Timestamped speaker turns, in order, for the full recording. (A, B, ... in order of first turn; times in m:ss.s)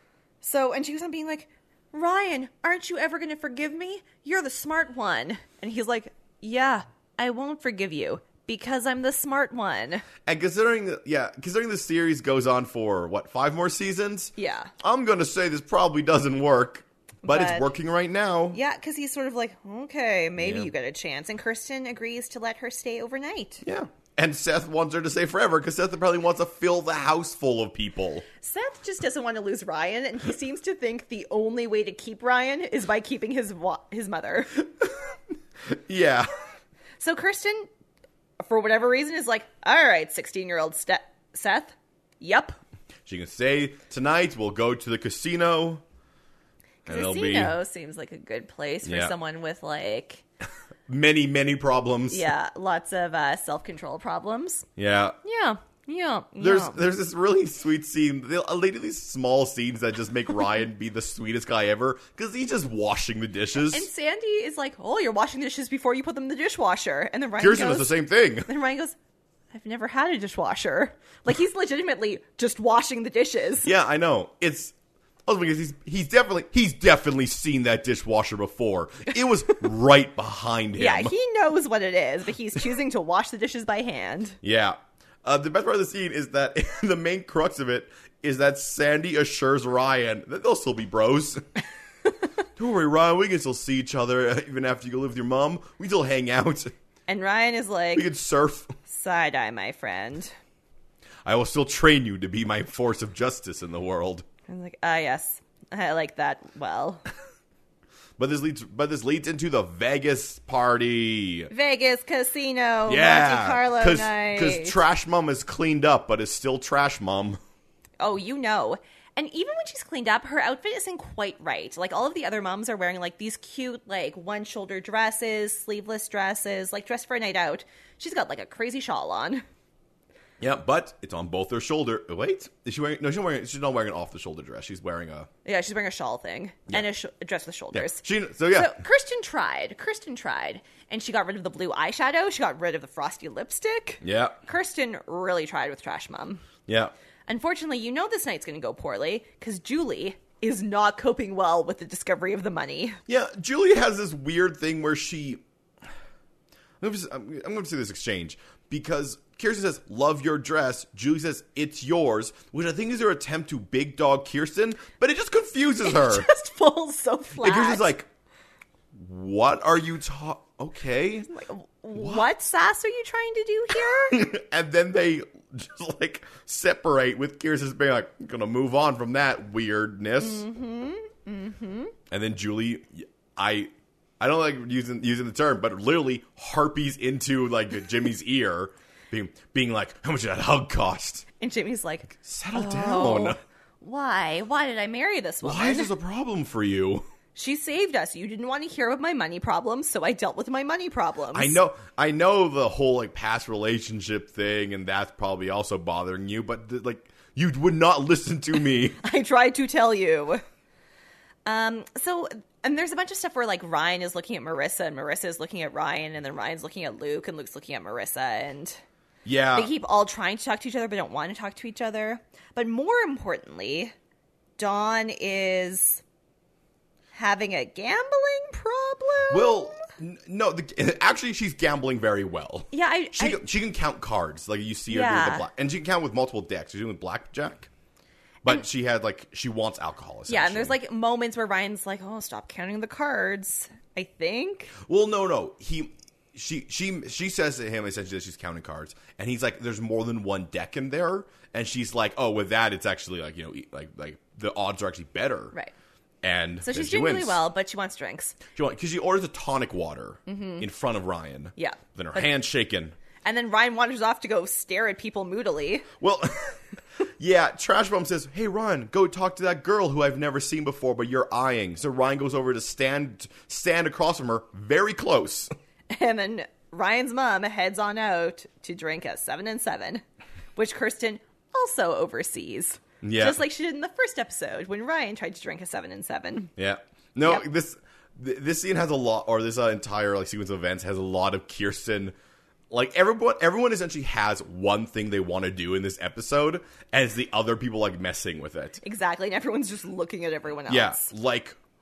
0:00.4-0:10.0 A
0:10.2-0:18.6 B
0:14.4-0:14.7 A
0:17.2-0:17.7 A
0:18.5-0:23.6 A
0:20.4-0:20.7 B
0:23.6-0:28.2 B
0:28.4-0:34.6 A
0:35.6-0:36.3 B
0:37.0-0:37.7 A
0:38.4-0:42.6 A
0:43.0-0:45.8 B
0:46.8-0:50.2 A
0:46.8-0:47.6 B
0:48.8-0:49.1 B
0:50.9-0:52.3 B
0:52.1-0:54.6 A
0:54.8-0:55.2 B
0:55.2-0:56.8 A
0:56.4-1:03.9 B
1:03.6-1:07.9 A
1:07.4-1:08.5 B
1:08.4-1:08.9 A
1:09.5-1:13.7 A
1:13.6-1:14.7 B
1:15.2-1:21.1 B
1:20.8-1:24.4 A
1:24.4-1:31.4 B
1:32.6-1:36.7 B
1:37.1-1:38.1 A
1:37.9-1:38.7 B
1:38.8-1:40.3 A
1:41.2-1:44.2 B
1:44.5-1:47.0 A
1:48.2-1:51.5 B
1:51.5-1:54.8 A
1:52.9-1:57.4 B
1:58.0-2:09.4 A
2:10.4-2:15.3 B
2:15.4-2:26.4 A
2:17.7-2:18.8 B
2:24.0-2:24.4 B
2:26.7-2:26.9 B
2:27.3-2:33.0 A
2:33.1-2:35.4 B
2:36.8-2:46.3 B
2:45.8-2:47.9 A
2:47.4-2:48.1 B
2:48.9-2:51.3 B
2:51.3-2:54.2 A
2:51.9-2:52.3 B
2:54.1-3:00.4 B
3:00.2-3:01.9 A
3:02.1-3:11.2 B
3:11.4-3:15.9 A
3:12.1-3:13.4 B
3:15.4-3:17.0 B
3:17.3-3:21.6 A
3:21.3-3:29.0 B
3:29.0-3:30.4 A
3:31.4-3:38.8 A
3:39.2-3:39.7 B
3:39.5-3:43.9 A
3:44.6-3:46.0 A
3:47.1-3:49.8 A
3:49.3-3:57.7 B
3:52.7-3:53.4 A
3:54.9-3:55.4 A
3:58.4-4:00.8 B
4:00.3-4:04.7 A
4:04.8-4:15.5 B
4:16.2-4:17.4 B
4:16.6-4:18.4 A
4:18.5-4:22.9 B
4:20.3-4:20.6 A
4:21.6-4:22.3 A
4:23.2-4:25.8 A
4:26.0-4:35.5 B
4:35.9-4:40.0 A
4:40.6-4:46.5 A
4:43.0-4:43.4 B
4:46.6-4:52.1 B
4:52.7-4:58.8 B
4:58.8-5:01.1 A
5:00.7-5:01.6 B